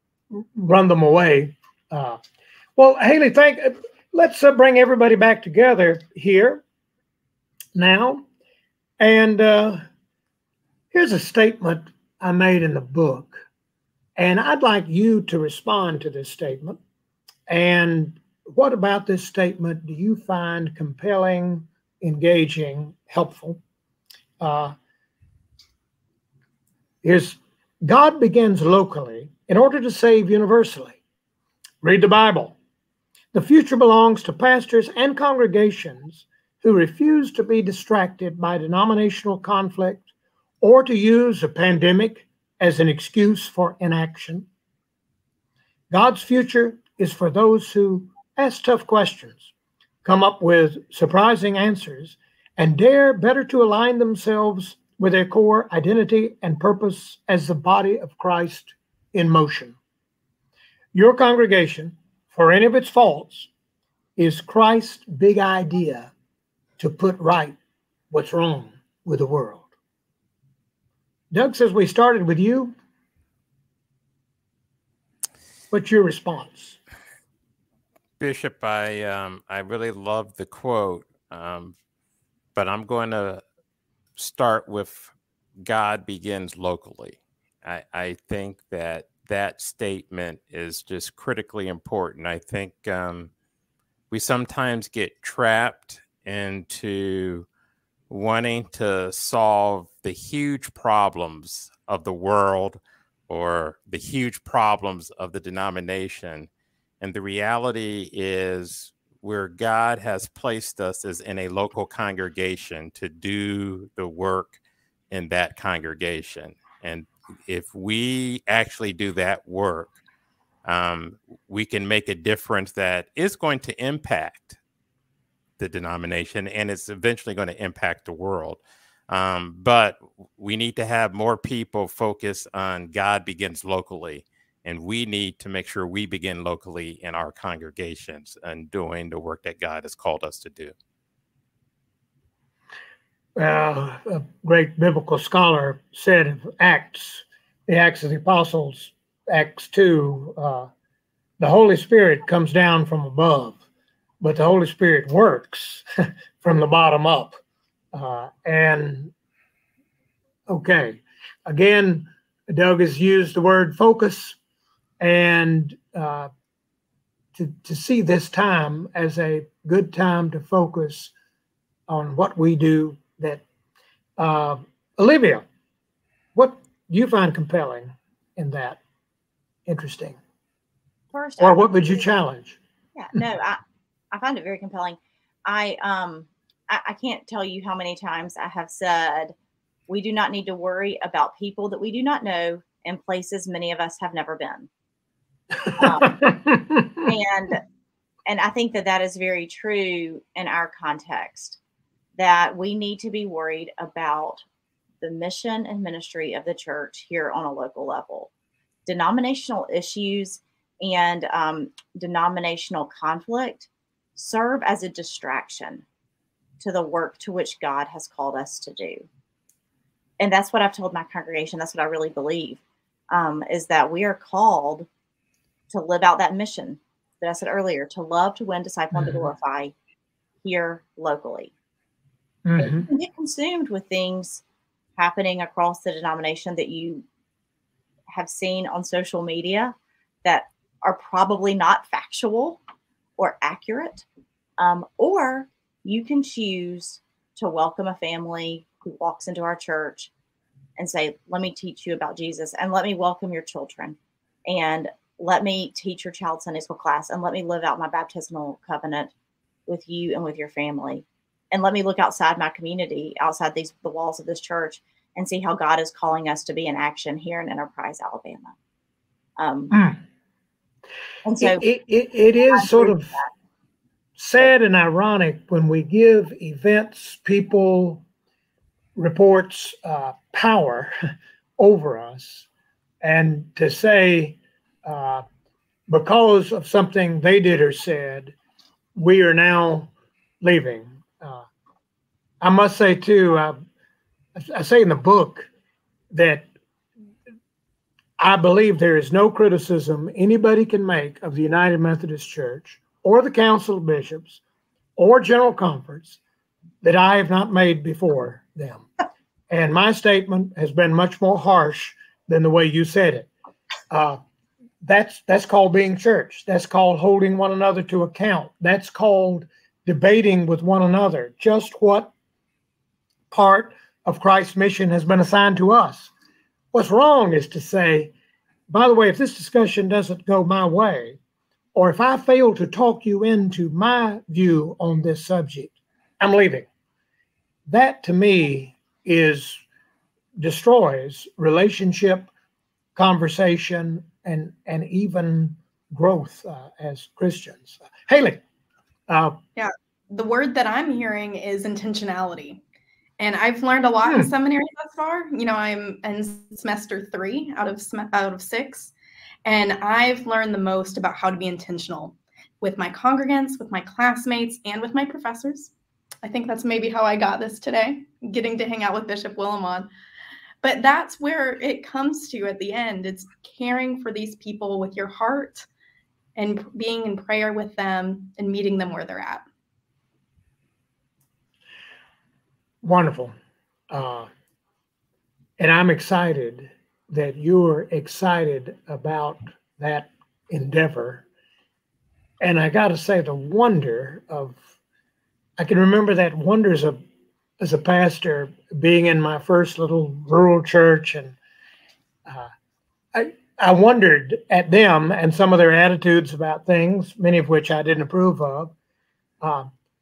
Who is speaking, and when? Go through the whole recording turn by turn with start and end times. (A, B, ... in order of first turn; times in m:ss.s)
0:00.3-0:02.2 A
0:02.8-0:06.6 A
0:07.7-0:08.2 A
0:09.0-0:09.8 A
0:10.9-0:13.4 A
0:14.2-0:16.8 A
0:17.5-0:23.6 A
0:24.4-0:24.7 A
0:27.0-0:31.0 A
0:31.8-0:32.6 A
0:33.3-0:40.0 A
0:40.6-0:44.5 A
0:45.9-0:49.5 A
0:50.0-0:59.8 A
1:00.9-1:03.5 A
1:04.2-1:06.1 A
1:06.8-1:07.6 A
1:08.1-1:09.7 A
1:11.3-1:12.7 A
1:15.7-1:16.8 A
1:18.2-1:21.7 B
1:22.5-1:23.4 B
1:24.2-1:25.1 B
1:25.6-1:33.3 B
1:34.1-1:37.5 B
1:38.1-1:46.5 B
1:47.0-1:54.6 B
1:55.1-1:59.9 B
2:00.6-2:04.6 B
2:05.6-2:20.7 B
2:23.4-2:30.7 A
2:31.4-2:33.6 A
2:34.2-2:35.8 A
2:36.4-2:37.4 A
2:37.9-2:39.1 A
2:40.5-2:44.4 A
2:45.0-2:46.3 A
2:47.3-2:51.1 A
2:51.9-2:53.4 A
2:54.2-2:55.4 A
2:56.3-2:58.8 A
2:59.6-3:00.2 A
3:01.1-3:02.0 C
3:01.4-3:02.6 A
3:02.9-3:03.6 C
3:04.1-3:09.3 C
3:09.9-3:14.7 C
3:15.6-3:17.0 A
3:15.8-3:16.4 C
3:17.0-3:17.6 C
3:18.2-3:21.6 C
3:22.2-3:24.4 C
3:25.0-3:28.3 C
3:28.8-3:35.8 C
3:36.6-3:39.1 C
3:40.2-3:44.9 C
3:45.7-3:49.7 C
3:48.9-3:49.2 A
3:50.4-3:51.5 C
3:52.4-3:52.9 A
3:52.6-3:54.4 C
3:55.0-3:57.0 C
3:58.1-4:02.6 C
4:03.2-4:04.0 C
4:04.6-4:10.1 C
4:10.8-4:19.1 C
4:19.7-4:28.5 C
4:29.4-4:29.8 C
4:29.7-4:30.0 A
4:31.2-4:31.6 C
4:31.4-4:33.2 A
4:32.5-4:33.3 C
4:34.2-4:38.0 A
4:39.0-4:40.9 A
4:41.6-4:42.5 A
4:43.0-4:45.2 A
4:45.9-4:48.3 A
4:48.9-4:51.4 A
4:52.4-4:53.6 A
4:54.3-4:55.5 A
4:56.1-4:56.5 A
4:58.2-5:04.4 A
5:05.0-5:06.2 A
5:06.8-5:08.8 A
5:09.5-5:13.3 A
5:13.9-5:14.2 A
5:14.8-5:22.1 A
5:23.3-5:26.1 A
5:26.7-5:28.1 A
5:28.7-5:31.2 A
5:31.7-5:36.7 A
5:37.7-5:39.6 A
5:40.4-5:42.3 A
5:43.0-5:48.4 A
5:49.1-5:49.4 A
5:49.6-5:52.6 D
5:53.2-5:58.9 D
5:54.0-5:54.3 A
5:59.4-6:05.7 D
6:06.2-6:09.9 D
6:10.6-6:15.7 D
6:16.4-6:19.4 D
6:22.8-6:23.3 A
6:23.9-6:24.3 A
6:25.6-6:31.2 A
6:32.4-6:34.6 A
6:35.6-6:37.0 A
6:37.6-6:41.4 A
6:43.1-6:48.7 A
6:49.4-6:49.7 A